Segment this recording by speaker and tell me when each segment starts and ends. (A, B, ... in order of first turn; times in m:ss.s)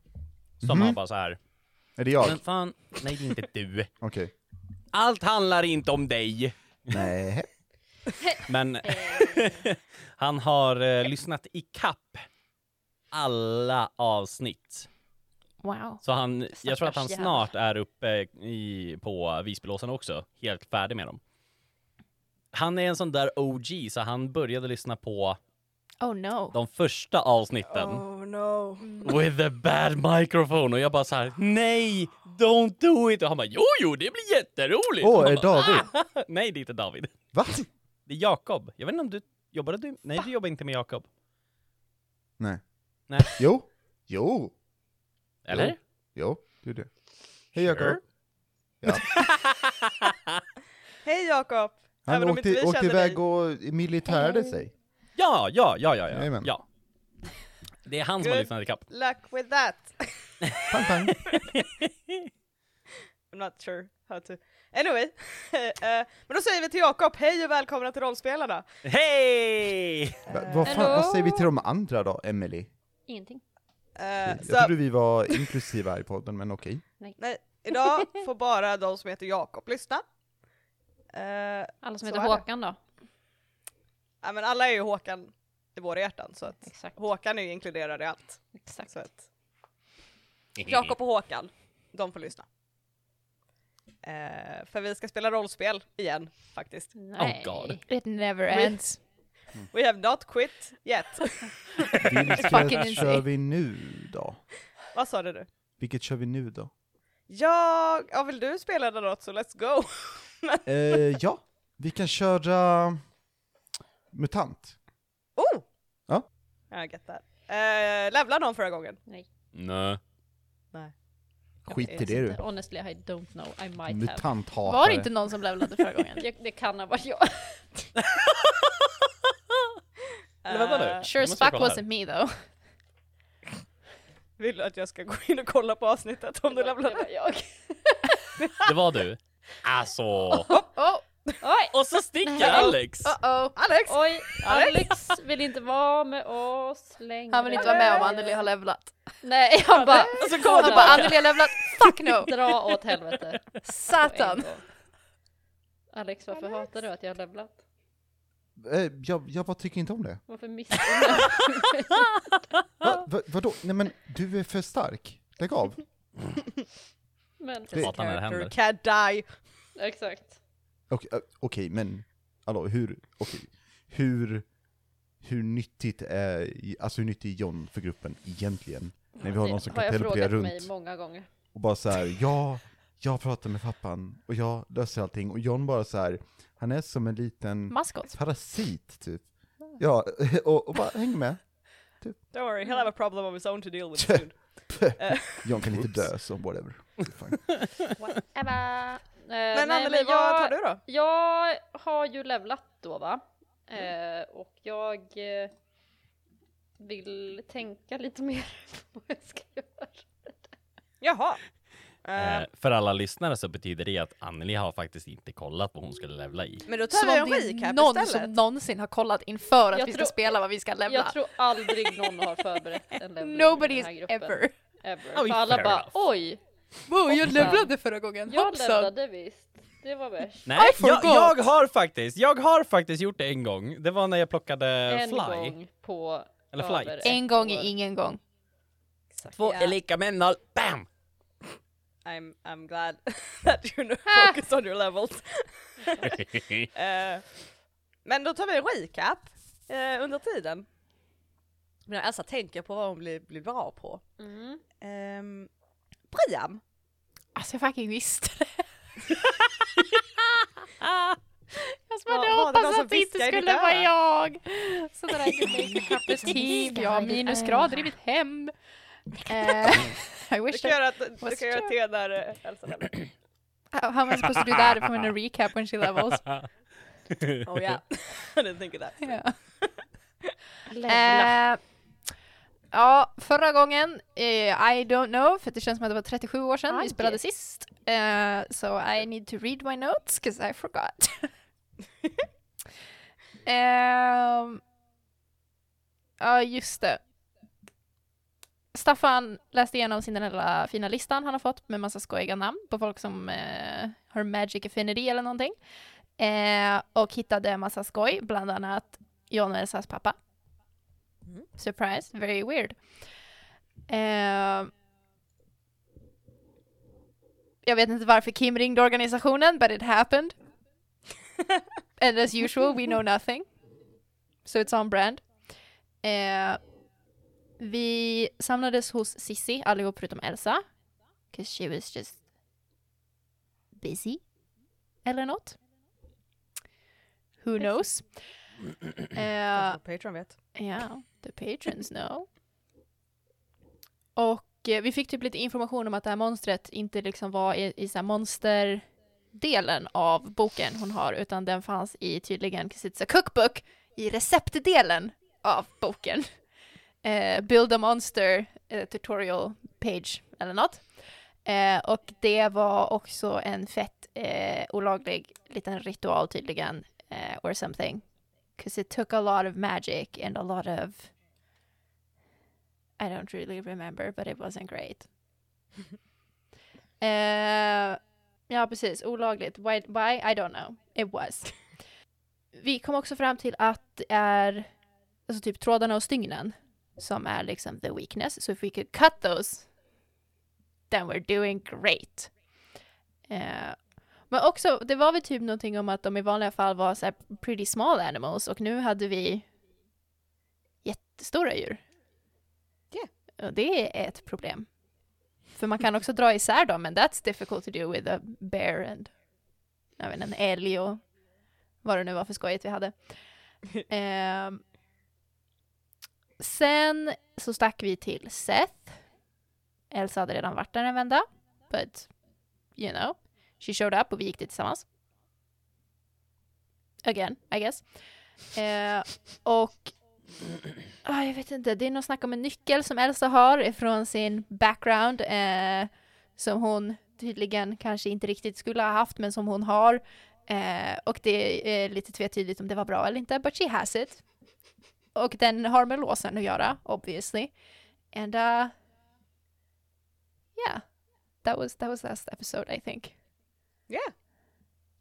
0:00.6-0:01.4 A
0:00.6-0:01.0 B
0:02.0-0:02.4 B
0:02.2-0:03.9 A
0:04.0-0:04.3 B
0:04.9-0:06.5 A
0:06.9-0:07.5 B
0:08.5-0:12.3 A
0:08.8-0:09.6 C
0:13.1-0:14.9 A
0:15.6-0:16.0 D
0:16.0-0:21.2 A
0:16.6-0:17.3 D
0:22.5-0:25.4 A
0:26.0-0:26.6 D
0:26.5-0:28.0 A
0:27.7-0:29.1 E
0:29.0-0:37.3 A
0:35.0-0:35.9 B
0:37.3-0:37.6 B
0:38.1-0:41.1 A
0:43.1-0:43.4 A
0:43.2-0:44.6 B
0:45.4-0:45.8 A
0:45.5-0:46.9 B
0:47.5-0:48.0 B
0:47.6-0:48.0 A
0:48.8-0:49.2 B
0:48.9-0:50.4 A
0:51.0-0:53.2 E
0:52.0-0:54.7 B
0:54.2-0:54.5 C
0:55.2-0:56.6 A
0:56.1-0:56.5 B
0:57.8-0:58.8 A
0:58.2-1:00.8 E
1:00.5-1:02.3 A
1:00.7-1:01.2 B
1:03.3-1:08.6 E
1:08.8-1:10.2 A
1:10.3-1:10.9 E
1:10.3-1:12.7 B
1:10.6-1:11.5 C
1:13.1-1:13.4 C
1:14.0-1:14.7 E
1:14.2-1:16.8 B
1:17.2-1:20.0 E
1:17.8-1:18.0 C
1:21.1-1:21.7 E
1:21.8-1:22.8 C
1:24.2-1:29.2 E
1:26.6-1:27.0 C
1:28.6-1:29.0 C
1:30.6-1:32.4 E
1:34.0-1:36.9 E
1:36.9-1:37.8 C
1:37.2-1:37.8 A
1:37.9-1:39.0 D
1:38.5-1:38.8 E
1:39.7-1:42.6 E
1:42.0-1:44.4 B
1:42.4-1:43.2 D
1:44.9-1:45.5 E
1:45.8-1:46.7 B
1:47.3-1:51.0 E
1:50.6-1:53.0 B
1:54.1-1:54.8 B
1:55.4-1:55.6 E
1:56.7-1:59.0 E
1:59.5-2:00.0 A
2:01.6-2:02.0 E
2:01.7-2:02.4 B
2:01.8-2:04.3 C
2:03.9-2:05.1 B
2:04.6-2:06.2 D
2:06.2-2:07.6 C
2:08.0-2:09.1 A
2:10.4-2:11.1 E
2:10.5-2:11.8 A
2:11.0-2:12.4 D
2:14.4-2:17.1 E
2:16.5-2:18.6 C
2:18.4-2:18.7 E
2:18.6-2:20.5 A
2:20.7-2:21.0 D
2:21.4-2:22.8 C
2:21.7-2:23.1 A
2:22.4-2:23.6 D
2:23.6-2:25.0 E
2:23.8-2:28.4 C
2:27.3-2:29.0 D
2:27.5-2:28.1 E
2:29.2-2:31.2 C
2:29.7-2:32.5 D
2:29.9-2:31.4 E
2:32.2-2:34.6 C
2:33.6-2:34.5 D
2:35.9-2:37.6 C
2:38.6-2:40.2 B
2:40.3-2:42.1 C
2:42.8-2:45.8 B
2:47.4-2:48.1 C
2:47.8-2:48.5 A
2:48.0-2:49.2 E
2:49.8-2:50.4 C
2:50.9-2:54.5 B
2:55.2-3:00.7 B
2:59.2-3:01.3 C
3:01.5-3:11.4 B
3:07.7-3:08.1 D
3:12.3-3:15.5 E
3:12.6-3:12.9 C
3:14.0-3:17.6 B
3:18.0-3:25.5 C
3:19.5-3:20.8 E
3:26.8-3:30.5 C
3:31.0-3:31.4 E
3:32.0-3:32.5 E
3:32.1-3:36.7 A
3:36.7-3:38.4 E
3:36.9-3:42.2 D
3:39.7-3:40.2 C
3:40.9-3:46.4 C
3:43.2-3:44.6 D
3:45.1-3:46.0 A
3:46.9-3:48.9 D
3:47.2-3:47.7 C
3:48.3-3:50.6 C
3:50.4-3:55.6 A
3:50.6-3:51.4 D
3:54.9-3:57.7 C
3:56.5-3:57.2 A
3:57.0-3:58.2 D
3:59.1-3:59.7 C
3:59.3-4:00.9 A
4:02.0-4:07.2 E
4:05.8-4:06.1 C
4:06.0-4:06.7 A
4:08.0-4:10.6 E
4:11.9-4:14.0 E
4:14.2-4:14.6 C
4:14.8-4:15.5 E
4:16.1-4:16.6 E
4:17.3-4:18.6 D
4:21.5-4:28.5 D
4:22.1-4:23.9 E
4:26.3-4:27.9 C
4:29.2-4:31.7 D
4:30.5-4:33.1 E
4:33.7-4:36.4 D
4:37.1-4:37.8 A
4:37.4-4:40.3 E
4:39.0-4:39.3 D
4:40.7-4:41.4 C
4:40.9-4:41.6 D
4:42.7-4:51.3 D
4:46.7-4:47.2 C
4:53.4-4:54.6 D
4:56.2-4:57.0 D
4:58.7-5:05.6 D
5:06.2-5:10.2 D
5:11.6-5:12.8 D
5:13.9-5:14.7 D
5:17.6-5:20.3 D
5:22.0-5:23.4 D
5:24.4-5:25.2 D
5:26.0-5:26.6 D
5:27.6-5:30.6 D
5:31.3-5:32.2 D
5:33.8-5:34.2 D
5:35.0-5:35.6 D
5:37.4-5:38.1 D
5:39.1-5:39.8 D
5:39.5-5:40.3 E
5:40.5-5:42.3 D
5:44.2-5:56.3 D
5:57.0-6:00.9 D
6:01.4-6:08.0 D
6:08.6-6:11.1 D
6:13.0-6:15.1 D
6:17.0-6:21.6 D
6:22.5-6:24.7 D
6:25.3-6:29.7 D
6:30.9-6:32.3 D
6:33.3-6:39.5 D
6:40.8-6:41.8 D
6:43.4-6:44.7 D
6:45.5-6:49.1 D
6:50.0-6:51.0 D
6:51.8-6:52.9 D
6:53.9-6:54.6 D
6:56.4-6:58.9 D
6:59.9-7:02.1 D
7:02.8-7:04.8 D
7:07.0-7:07.8 D
7:08.5-7:09.9 D
7:11.0-7:24.2 D
7:25.1-7:27.5 D
7:28.1-7:28.7 D
7:30.6-7:30.8 D
7:31.4-7:33.1 D
7:33.9-7:34.1 E